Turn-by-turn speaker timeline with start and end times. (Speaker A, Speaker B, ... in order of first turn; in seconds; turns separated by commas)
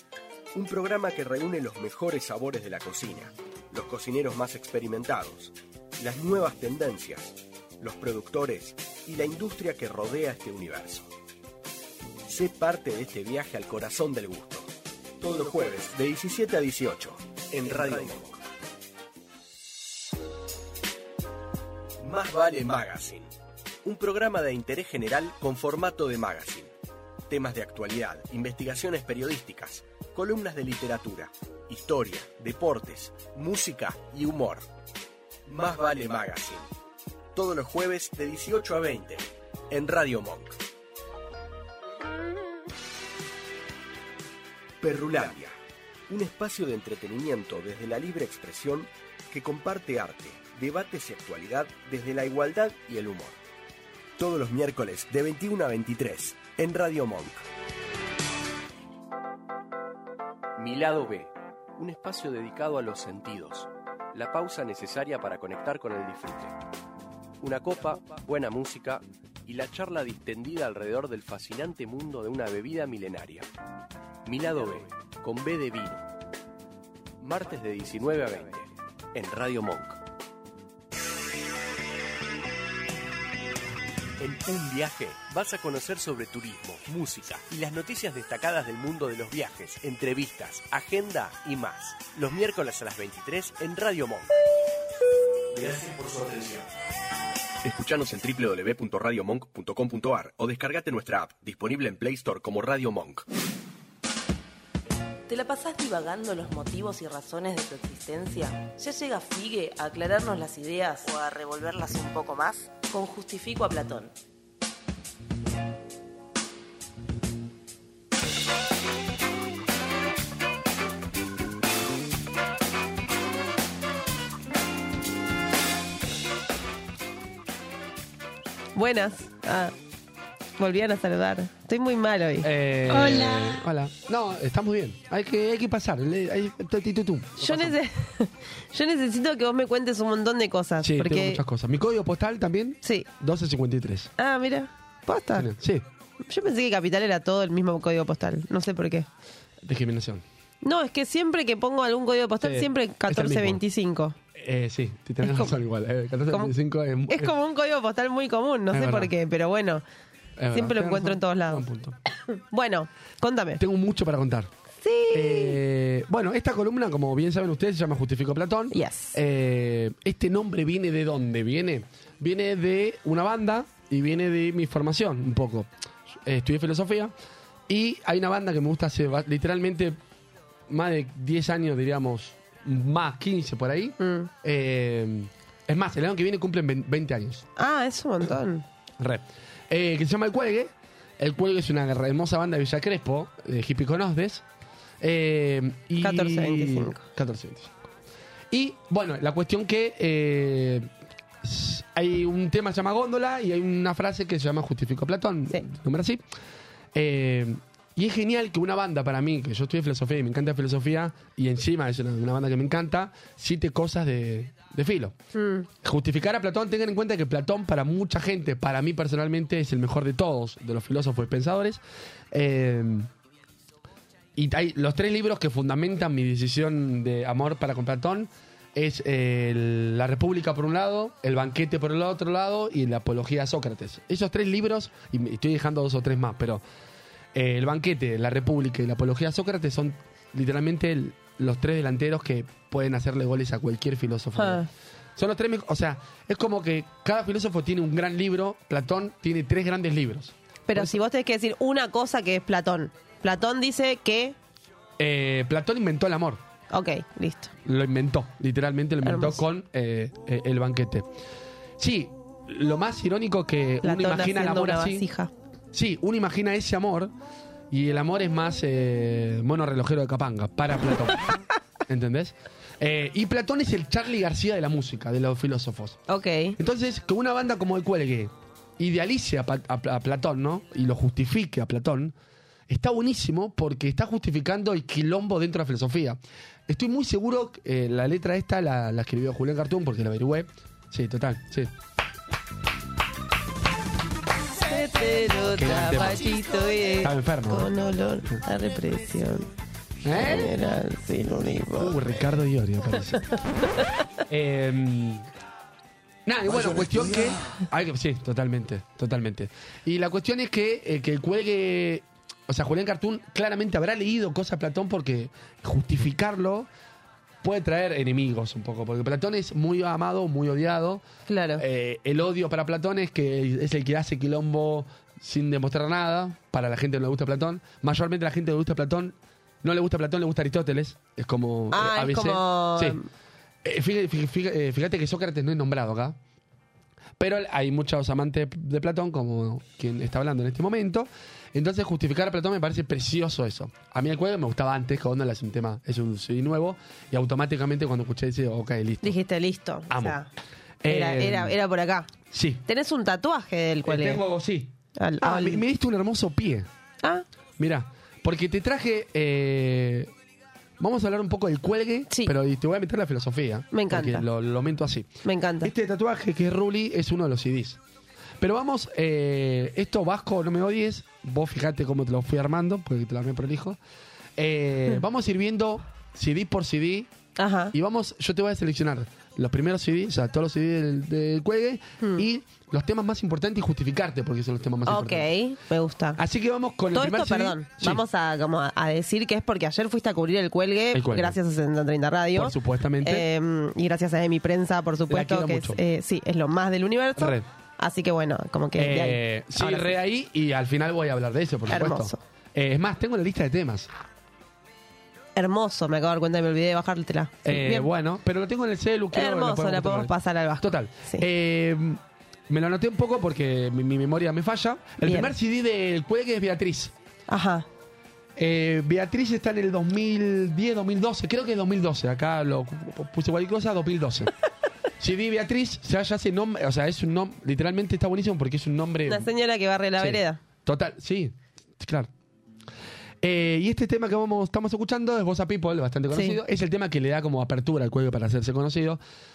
Speaker A: 0.5-11.1, Speaker A: 12.3-18.4, Speaker A: 22.0-23.3, Speaker A: 23.8-26.7, Speaker A: 27.3-34.7, Speaker A: 35.5-36.7, Speaker A: 37.3-40.6, Speaker A: 44.8-45.5, Speaker A: 46.1-53.4, Speaker A: 54.2-57.4, Speaker A: 60.6-66.6, Speaker A: 67.4-73.5, Speaker A: 74.2-76.0, Speaker A: 77.2-80.0, Speaker A: 84.2-94.3, Speaker A: 95.5-96.7, Speaker A: 97.6-103.2, Speaker B: 105.3-114.1, Speaker C: 128.7-129.7, Speaker C: 130.6-133.3, Speaker D: 132.4-137.8, Speaker C: 137.4-141.4, Speaker D: 140.8-144.1, Speaker C: 144.2-145.5, Speaker D: 145.3-145.8, Speaker C: 146.2-149.1, Speaker D: 149.6-150.2, Speaker C: 150.6-154.2, Speaker D: 152.4-153.6, Speaker D: 154.3-157.3, Speaker C: 155.2-155.5, Speaker C: 157.1-159.8, Speaker D: 158.7-159.1, Speaker D: 160.4-161.9, Speaker C: 160.5-161.7, Speaker C: 162.3-163.6, Speaker D: 163.6-164.5, Speaker C: 164.8-165.6, Speaker D: 165.1-175.7, Speaker C: 168.7-169.2, Speaker D: 176.2-177.1, Speaker D: 177.7-180.0, Speaker D: 180.7-187.4, Speaker C: 184.0-184.3, Speaker C: 187.6-188.6, Speaker D: 189.0-194.4, Speaker D: 195.0-197.7, Speaker C: 196.0-197.0, Speaker D: 198.5-200.9, Speaker D: 201.4-206.2, Speaker D: 206.9-215.1, Speaker C: 215.3-215.7, Speaker D: 215.8-221.8, Speaker D: 222.3-223.1, Speaker D: 224.3-236.6, Speaker D: 237.3-250.9, Speaker C: 244.4-244.7, Speaker C: 250.7-254.3, Speaker D: 255.0-256.4, Speaker C: 256.7-257.5, Speaker D: 257.6-261.1, Speaker C: 259.0-259.4, Speaker D: 261.8-265.1, Speaker C: 263.8-265.3, Speaker D: 265.7-267.1, Speaker D: 267.7-271.3, Speaker D: 271.9-276.0, Speaker C: 276.1-276.6, Speaker D: 276.6-282.1, Speaker D: 282.7-291.7, Speaker C: 294.6-299.5, Speaker D: 295.4-296.3, Speaker D: 297.0-297.7, Speaker D: 300.0-300.6, Speaker C: 300.1-302.0, Speaker D: 301.7-303.2, Speaker D: 304.3-305.3, Speaker D: 306.2-316.7, Speaker D: 317.4-321.0, Speaker C: 321.3-321.6, Speaker D: 321.6-333.0, Speaker C: 331.7-333.1, Speaker D: 333.6-336.2, Speaker D: 337.2-349.1, Speaker C: 349.0-350.3, Speaker D: 349.9-350.2, Speaker D: 350.8-351.6, Speaker C: 350.9-352.1, Speaker D: 352.3-352.6, Speaker C: 352.7-354.2, Speaker D: 353.8-356.7, Speaker C: 355.0-355.6, Speaker D: 357.6-360.1, Speaker D: 360.8-365.1, Speaker C: 363.7-364.2, Speaker C: 365.2-365.7, Speaker D: 365.6-367.8, Speaker D: 368.4-373.8, Speaker D: 374.4-377.1, Speaker C: 377.4-377.7, Speaker D: 377.7-385.3, Speaker C: 382.0-382.2, Speaker C: 384.9-386.2, Speaker D: 386.2-388.0, Speaker C: 386.9-399.9, Speaker D: 390.9-391.4, Speaker D: 392.3-393.3, Speaker D: 395.1-395.8, Speaker D: 397.2-397.4, Speaker D: 398.8-403.9, Speaker C: 401.7-402.2, Speaker C: 405.4-407.9, Speaker D: 407.4-416.9, Speaker C: 409.1-411.2, Speaker C: 415.0-415.3, Speaker C: 417.3-417.7, Speaker D: 418.4-424.3, Speaker D: 425.0-429.3, Speaker C: 429.1-430.4, Speaker D: 430.0-432.1, Speaker D: 433.2-439.0, Speaker C: 436.1-436.4